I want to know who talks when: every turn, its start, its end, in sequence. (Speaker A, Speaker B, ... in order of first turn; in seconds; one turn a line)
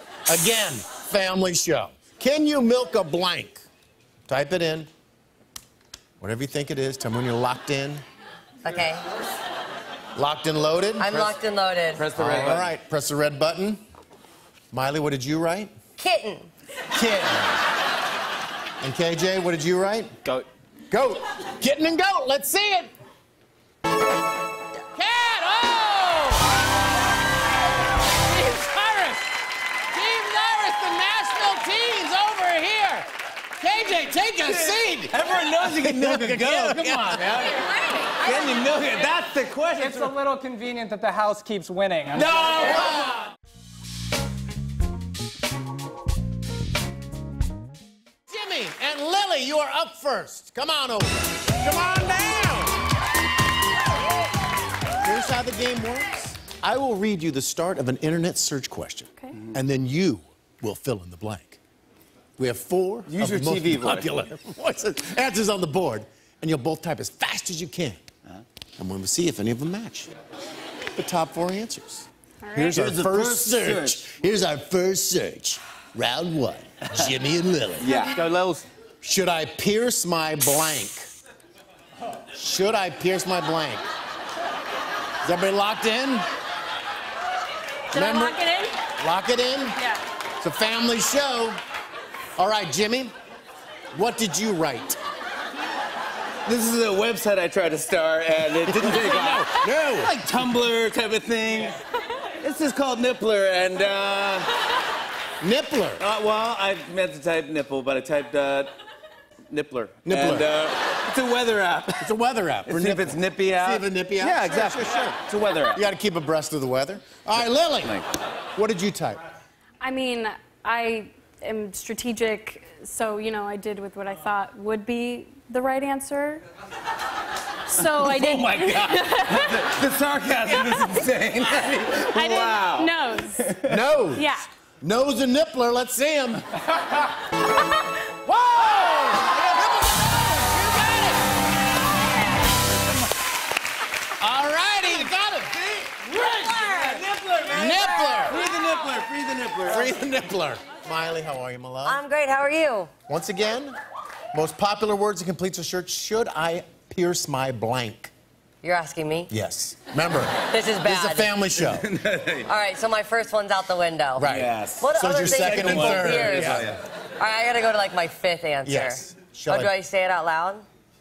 Speaker A: 0.3-3.6
Speaker A: 4.3-4.9
Speaker A: 6.2-8.0
Speaker B: 8.6-9.1
Speaker A: 10.2-11.2
Speaker B: 11.0-12.1
Speaker C: 11.1-11.4
Speaker C: 11.9-12.7
Speaker A: 12.2-13.8
Speaker A: 14.7-15.7
Speaker B: 16.0-16.5
Speaker A: 16.9-17.6
Speaker A: 18.8-20.1
Speaker A: 20.9-22.9
Speaker A: 24.9-26.6
Speaker A: 28.3-29.3
Speaker A: 29.9-37.4
Speaker C: 34.4-40.1
Speaker B: 37.3-39.0
Speaker D: 39.8-42.9
Speaker A: 42.1-43.3
Speaker A: 48.3-52.8
Speaker A: 55.0-61.6
Speaker A: 62.4-68.0
Speaker C: 63.1-64.1
Speaker A: 68.8-70.1
Speaker A: 71.0-78.0
Speaker E: 72.4-72.8
Speaker C: 72.7-74.0
Speaker C: 77.8-78.7
Speaker E: 77.9-78.2
Speaker A: 79.0-81.1
Speaker A: 82.3-83.8
Speaker A: 85.2-86.3
Speaker A: 87.9-88.5
Speaker E: 87.9-88.8
Speaker A: 89.0-89.8
Speaker A: 90.4-91.6
Speaker A: 92.4-93.1
Speaker A: 93.9-95.0
Speaker C: 96.5-101.8
Speaker A: 98.6-100.1
Speaker C: 102.4-104.5
Speaker A: 105.4-106.0
Speaker C: 106.0-108.8
Speaker C: 109.5-112.0
Speaker A: 110.0-110.5
Speaker A: 112.0-115.2
Speaker C: 112.7-115.8
Speaker A: 115.7-118.0
Speaker C: 117.3-118.1
Speaker A: 118.5-119.2
Speaker E: 119.8-126.4
Speaker E: 127.7-129.7
Speaker C: 127.9-133.7
Speaker E: 130.5-131.1
Speaker E: 132.1-133.5
Speaker A: 133.6-136.5
Speaker E: 134.2-134.5
Speaker A: 138.3-141.2
Speaker A: 144.2-145.7
Speaker C: 145.9-150.0
Speaker B: 146.2-147.0
Speaker A: 147.5-148.4
Speaker B: 148.1-148.4
Speaker A: 149.7-152.0
Speaker B: 151.8-152.9
Speaker A: 153.1-153.8
Speaker A: 154.3-158.1
Speaker B: 158.6-159.3
Speaker A: 159.3-161.9
Speaker B: 160.5-161.3
Speaker C: 161.6-162.5
Speaker B: 162.5-170.7
Speaker A: 164.2-166.8
Speaker C: 164.3-166.8
Speaker A: 168.6-169.7